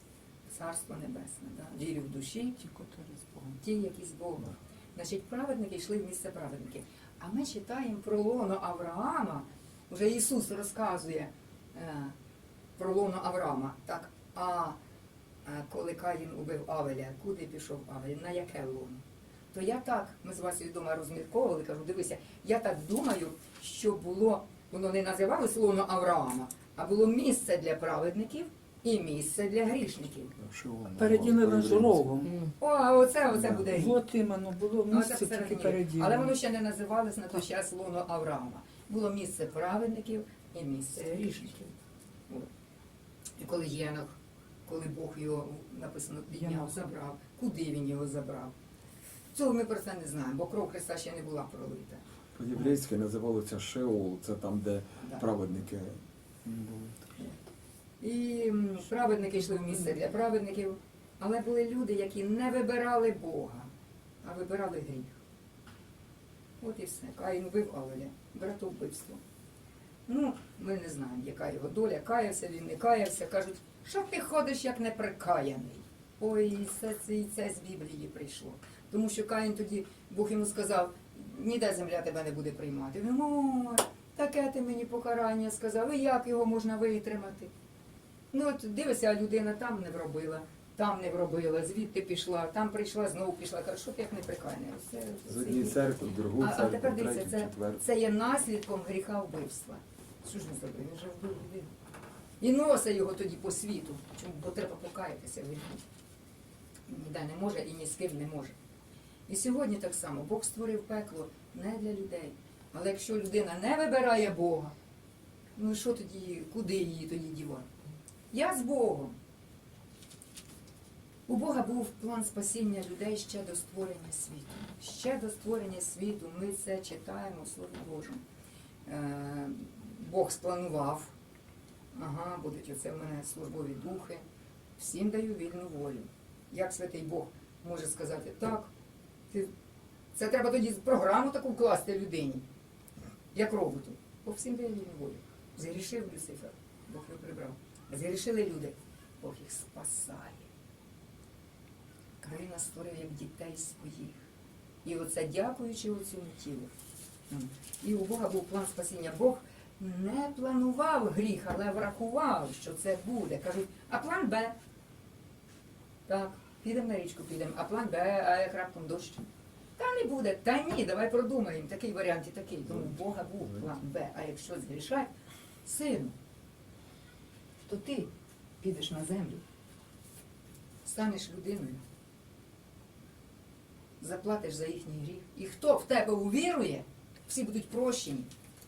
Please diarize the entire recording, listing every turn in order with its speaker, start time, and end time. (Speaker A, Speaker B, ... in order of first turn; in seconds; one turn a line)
Speaker A: 0.5-2.6
Speaker B: 2.6-3.6
Speaker A: 3.6-12.2
Speaker A: 12.8-14.8
Speaker A: 15.4-19.0
Speaker A: 19.5-30.3
Speaker C: 30.4-32.2
Speaker B: 31.0-32.5
Speaker A: 32.6-34.0
Speaker C: 33.3-33.7
Speaker B: 33.7-36.3
Speaker A: 34.9-41.8
Speaker A: 43.4-44.1
Speaker A: 44.7-48.5
Speaker B: 46.4-46.8
Speaker A: 49.3-52.0
Speaker C: 52.4-57.0
Speaker A: 58.0-63.7
Speaker A: 64.2-65.2
Speaker A: 66.6-69.2
Speaker A: 70.1-87.5
Speaker A: 88.3-101.7
Speaker C: 95.3-97.8
Speaker A: 102.4-105.8
Speaker A: 106.9-108.5
Speaker A: 109.3-114.7
Speaker A: 115.6-117.7
Speaker A: 118.3-119.2
Speaker A: 121.3-128.2
Speaker A: 128.9-131.1
Speaker A: 131.9-134.2
Speaker A: 134.8-138.7
Speaker A: 140.2-142.4
Speaker A: 143.3-150.5
Speaker A: 152.2-154.1
Speaker A: 154.8-156.7
Speaker A: 157.3-164.6
Speaker A: 166.1-175.1
Speaker A: 175.7-176.2
Speaker A: 177.7-179.4
Speaker A: 180.8-181.8
Speaker A: 184.0-188.3